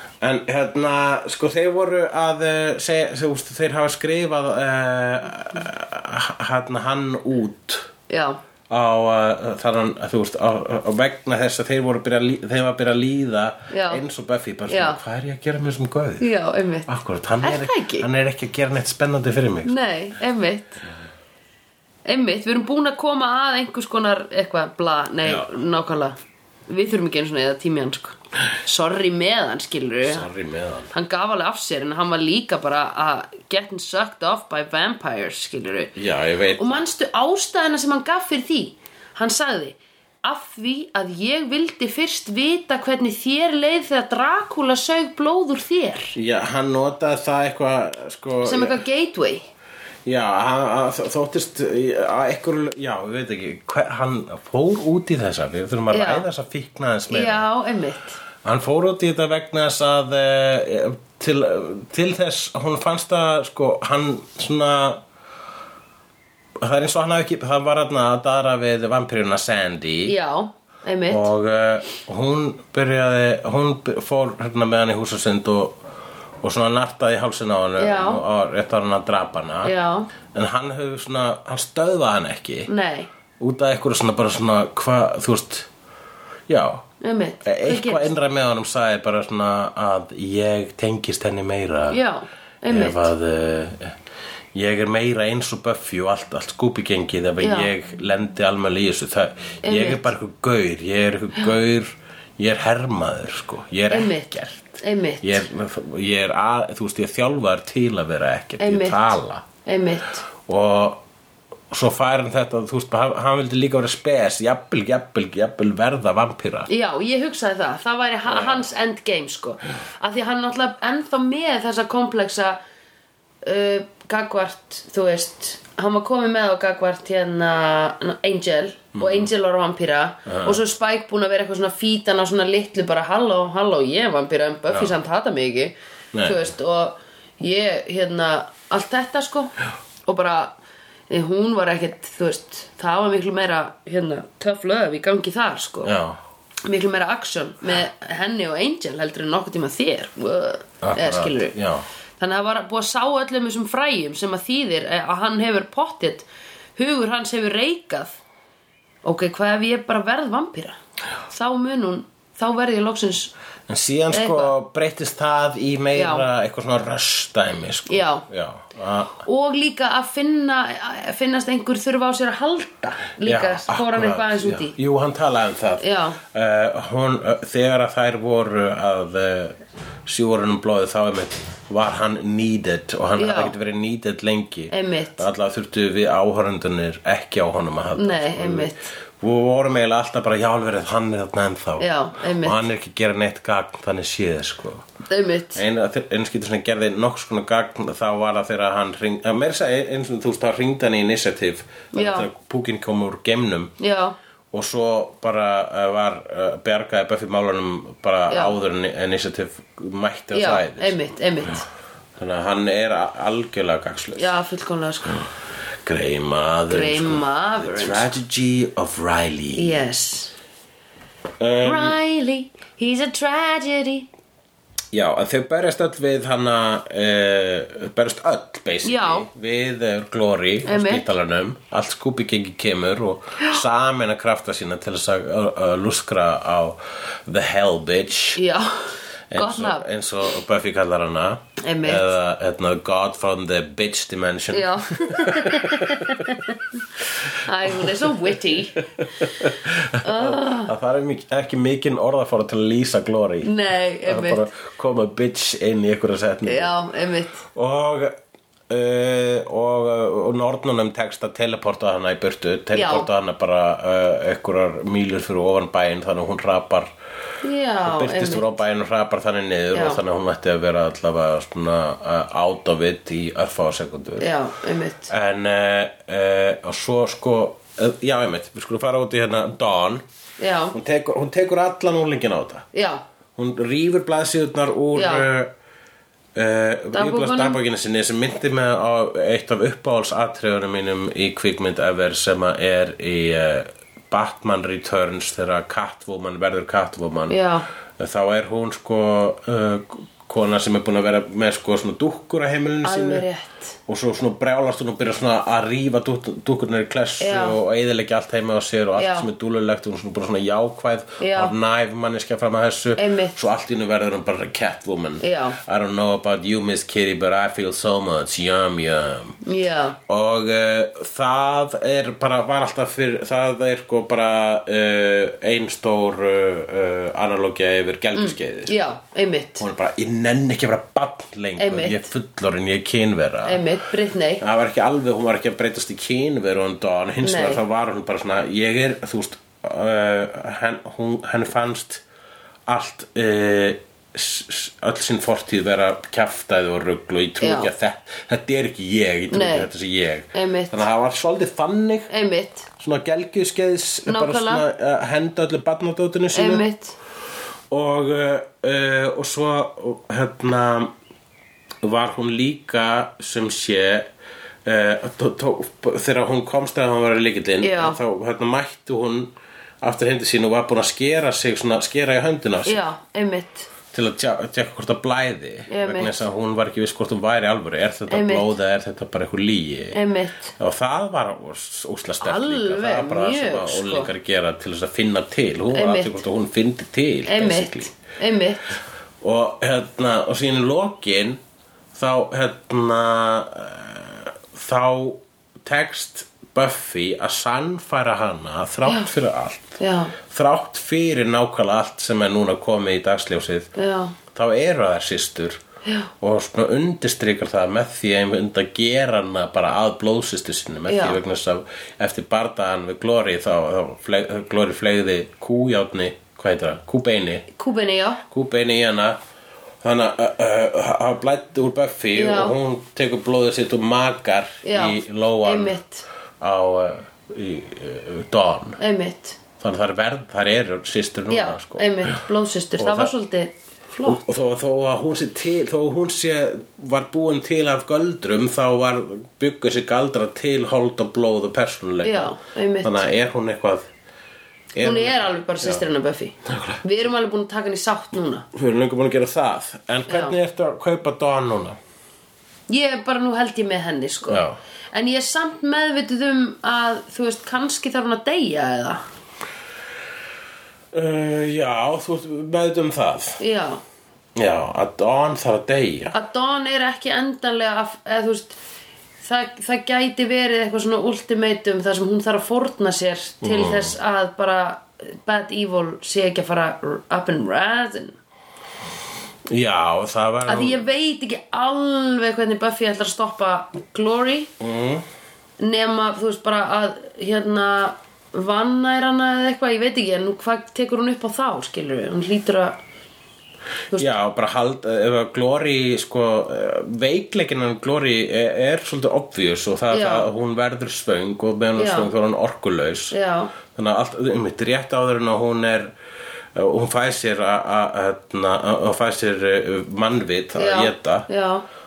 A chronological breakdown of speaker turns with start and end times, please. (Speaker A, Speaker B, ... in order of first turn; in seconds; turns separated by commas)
Speaker A: 0.2-7.9, Speaker B: 8.1-8.4, Speaker A: 8.7-16.3, Speaker B: 13.7-14.0, Speaker B: 14.7-15.0, Speaker B: 16.2-16.9, Speaker A: 16.9-19.8, Speaker B: 17.4-18.1, Speaker B: 19.6-20.8, Speaker B: 22.1-26.1, Speaker A: 25.2-25.5, Speaker B: 26.7-30.3, Speaker A: 30.0-30.9, Speaker B: 30.9-36.0, Speaker A: 36.0-36.8, Speaker B: 36.6-46.1, Speaker A: 46.1-48.8, Speaker B: 48.4-49.5, Speaker A: 50.1-57.5, Speaker B: 55.9-56.2, Speaker B: 57.1-58.2, Speaker A: 58.4-65.0, Speaker A: 66.6-70.1, Speaker B: 70.0-71.3, Speaker A: 71.1-75.8, Speaker A: 76.4-79.7, Speaker B: 77.8-78.2, Speaker B: 79.6-80.1, Speaker A: 80.3-82.7, Speaker B: 82.7-83.1, Speaker A: 83.4-85.7, Speaker A: 86.5-86.9, Speaker B: 87.0-88.1, Speaker A: 87.4-92.0, Speaker B: 91.9-93.1, Speaker A: 92.7-94.0, Speaker A: 94.5-109.5, Speaker B: 97.4-97.7, Speaker B: 99.6-100.1, Speaker B: 103.9-105.4, Speaker B: 108.6-110.2, Speaker A: 110.4-111.0, Speaker A: 111.7-116.7, Speaker B: 116.7-122.6, Speaker A: 118.3-118.7, Speaker B: 123.4-139.5, Speaker A: 128.9-129.3, Speaker A: 130.3-130.6, Speaker A: 136.1-136.5, Speaker B: 140.1-140.6, Speaker B: 141.1-145.9, Speaker A: 145.8-146.2, Speaker B: 146.6-151.6, Speaker A: 150.8-151.9, Speaker B: 152.2-158.2, Speaker B: 159.0-160.8, Speaker B: 161.3-163.3, Speaker A: 163.7-169.2, Speaker B: 164.1-164.5, Speaker B: 165.9-166.3, Speaker B: 167.9-168.3, Speaker B: 169.2-174.8, Speaker A: 173.2-194.9, Speaker B: 175.8-176.2, Speaker B: 183.2-183.5, Speaker B: 184.7-185.2, Speaker B: 187.9-188.9, Speaker B: 191.8-192.6, Speaker B: 195.1-195.6, Speaker A: 195.6-203.7, Speaker B: 201.9-202.3, Speaker B: 203.8-204.2, Speaker A: 204.5-211.0, Speaker B: 208.3-208.6, Speaker B: 210.3-211.7, Speaker A: 212.2-214.3, Speaker B: 214.2-215.2, Speaker A: 215.8-219.8, Speaker B: 216.7-218.1, Speaker B: 219.6-220.3, Speaker A: 221.4-222.0, Speaker B: 221.6-224.1, Speaker A: 224.9-238.4, Speaker B: 228.8-229.3, Speaker B: 230.7-231.1, Speaker B: 238.4-239.9, Speaker A: 239.3-246.3, Speaker B: 241.6-242.1, Speaker B: 244.5-246.8, Speaker B: 247.3-248.8, Speaker A: 247.7-248.4, Speaker A: 249.0-253.5, Speaker B: 250.0-250.7, Speaker B: 253.4-254.4, Speaker A: 254.1-256.8, Speaker B: 256.4-257.4, Speaker A: 257.4-258.1, Speaker A: 258.7-266.9, Speaker B: 262.7-263.1, Speaker B: 267.4-268.5, Speaker A: 267.8-274.4, Speaker B: 269.7-270.0, Speaker B: 274.2-275.1, Speaker A: 275.1-280.0, Speaker B: 280.4-280.8, Speaker A: 280.7-282.7, Speaker B: 282.7-283.0, Speaker A: 283.4-285.5, Speaker B: 284.9-285.3, Speaker A: 286.4-297.4, Speaker B: 286.9-287.6, Speaker B: 297.3-297.7, Speaker A: 298.0-303.3, Speaker B: 302.8-303.8, Speaker A: 303.9-319.4, Speaker B: 307.2-307.6, Speaker B: 308.9-309.3, Speaker B: 311.2-311.6, Speaker B: 313.0-313.4, Speaker B: 315.2-315.6, Speaker B: 319.4-320.0, Speaker A: 320.1-328.8, Speaker B: 328.1-329.6, Speaker A: 329.6-333.7, Speaker B: 331.6-332.1, Speaker B: 333.4-334.4, Speaker A: 334.4-342.0, Speaker B: 337.2-337.6, Speaker A: 342.7-352.1, Speaker B: 347.4-347.7, Speaker B: 349.3-349.7, Speaker B: 350.3-350.9, Speaker B: 352.1-352.7, Speaker A: 352.8-356.7, Speaker B: 354.1-354.6, Speaker B: 356.3-356.9, Speaker A: 357.7-360.9, Speaker A: 361.8-364.1, Speaker A: 364.6-372.8, Speaker B: 367.6-368.0, Speaker B: 372.6-373.7, Speaker A: 373.9-380.0, Speaker B: 375.7-376.1, Speaker B: 378.1-378.5, Speaker B: 379.9-380.5, Speaker A: 380.6-387.9, Speaker B: 382.2-384.1, Speaker B: 385.7-386.2, Speaker B: 387.3-388.8, Speaker A: 389.2-391.4, Speaker A: 391.9-403.7, Speaker B: 398.9-399.1, Speaker B: 399.8-400.1, Speaker B: 403.8-404.1, Speaker A: 404.3-405.6, Speaker B: 405.9-406.1, Speaker A: 406.2-417.5, Speaker B: 410.9-411.2, Speaker B: 417.6-418.2, Speaker A: 418.3-419.2, Speaker A: 419.8-425.8, Speaker B: 422.1-422.6, Speaker B: 424.6-426.1, Speaker A: 426.4-428.8, Speaker B: 428.8-429.4, Speaker A: 429.6-432.2, Speaker B: 431.3-434.2, Speaker A: 432.8-433.1, Speaker A: 434.0-443.9, Speaker B: 442.0-443.1, Speaker A: 444.8-445.9, Speaker B: 444.8-448.5, Speaker A: 446.5-446.8, Speaker A: 448.5-451.8, Speaker B: 450.1-450.4, Speaker B: 452.7-459.0, Speaker A: 454.3-454.6, Speaker A: 460.9-463.4, Speaker B: 463.4-463.8, Speaker A: 464.4-466.1, Speaker B: 466.1-468.6, Speaker B: 469.2-478.1, Speaker A: 473.4-473.9, Speaker A: 479.5-480.9, Speaker B: 480.4-484.5, Speaker A: 484.6-485.1, Speaker B: 485.6-492.8, Speaker A: 493.9-503.1, Speaker B: 499.9-500.3, Speaker B: 501.8-502.1, Speaker B: 503.1-503.5, Speaker A: 503.7-505.9, Speaker A: 506.6-511.3, Speaker B: 510.6-511.6